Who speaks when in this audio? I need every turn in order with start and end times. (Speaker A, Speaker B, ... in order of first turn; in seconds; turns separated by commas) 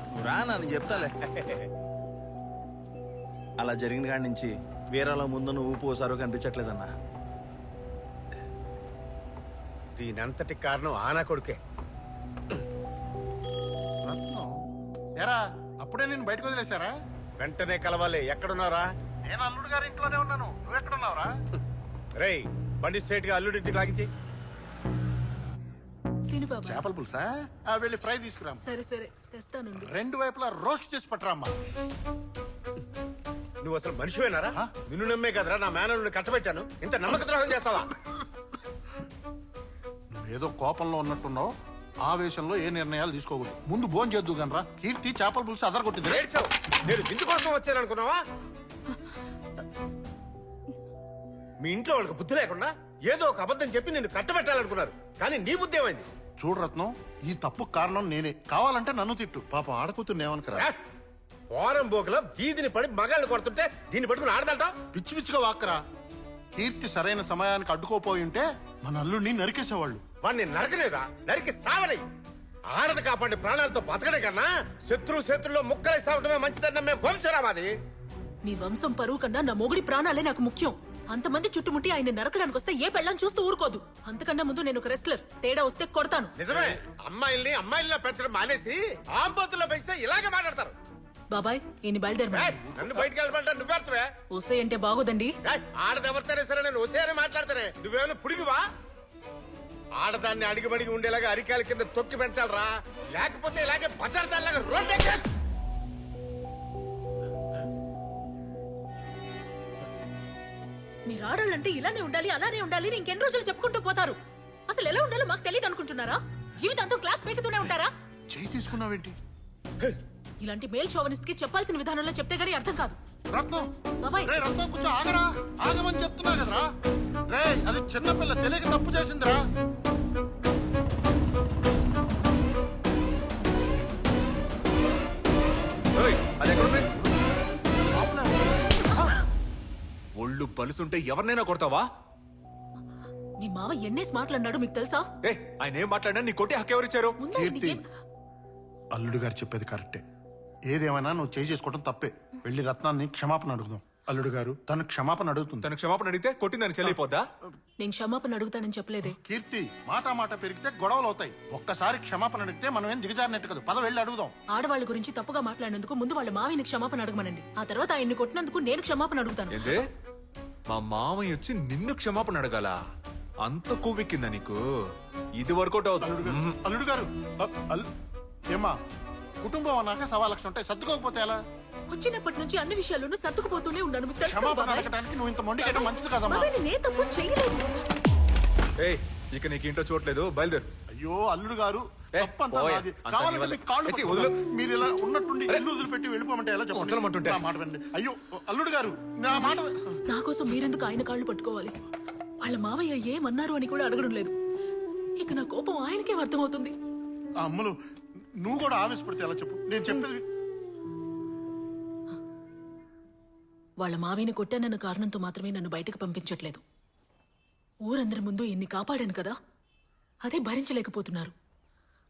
Speaker A: 0.2-1.1, Speaker B: 0.9-1.7, Speaker A: 3.6-6.9, Speaker B: 10.0-11.6, Speaker C: 14.1-14.5, Speaker C: 15.2-16.9, Speaker B: 17.4-18.9, Speaker C: 19.3-21.3, Speaker B: 22.2-24.1, Speaker D: 26.3-26.8, Speaker C: 26.7-28.6, Speaker D: 28.6-29.9, Speaker C: 29.8-31.5, Speaker B: 33.6-37.9, Speaker C: 40.1-41.5, Speaker C: 42.1-46.2, Speaker B: 46.0-48.2, Speaker B: 51.6-56.1, Speaker C: 56.4-60.7, Speaker B: 61.5-64.8, Speaker C: 64.9-65.8, Speaker C: 66.5-70.0, Speaker B: 70.2-72.0, Speaker B: 72.7-77.7, Speaker D: 78.4-86.3, Speaker B: 86.4-90.8, Speaker D: 91.3-92.6, Speaker B: 92.3-94.1, Speaker D: 94.3-95.3, Speaker B: 95.5-98.6, Speaker B: 100.0-105.2, Speaker D: 111.1-114.2, Speaker D: 114.7-117.9, Speaker C: 118.3-119.2, Speaker D: 120.4-123.0, Speaker C: 123.3-123.7, Speaker D: 124.0-124.3, Speaker C: 124.3-126.7, Speaker C: 127.3-129.4, Speaker E: 136.0-136.8, Speaker C: 138.0-138.4, Speaker E: 140.2-141.9, Speaker D: 143.4-145.1, Speaker E: 145.2-147.2, Speaker D: 147.2-147.8, Speaker C: 147.3-147.8, Speaker C: 148.9-150.0, Speaker C: 150.7-155.7, Speaker E: 155.6-157.2, Speaker D: 157.8-159.2, Speaker C: 159.1-164.3, Speaker D: 164.5-169.8, Speaker E: 169.5-169.8, Speaker E: 170.7-172.8, Speaker E: 173.4-174.6, Speaker E: 175.4-176.6, Speaker C: 176.0-177.9, Speaker C: 179.4-181.4, Speaker D: 181.9-184.9, Speaker C: 184.2-186.5, Speaker D: 185.6-187.7, Speaker E: 188.8-190.7, Speaker C: 190.9-199.7, Speaker E: 192.2-194.4, Speaker E: 196.7-197.5, Speaker D: 200.1-201.8, Speaker D: 202.4-204.3, Speaker D: 205.2-206.8, Speaker C: 207.4-207.8, Speaker C: 208.4-210.2, Speaker D: 213.8-216.6, Speaker D: 217.8-219.4, Speaker D: 220.2-221.3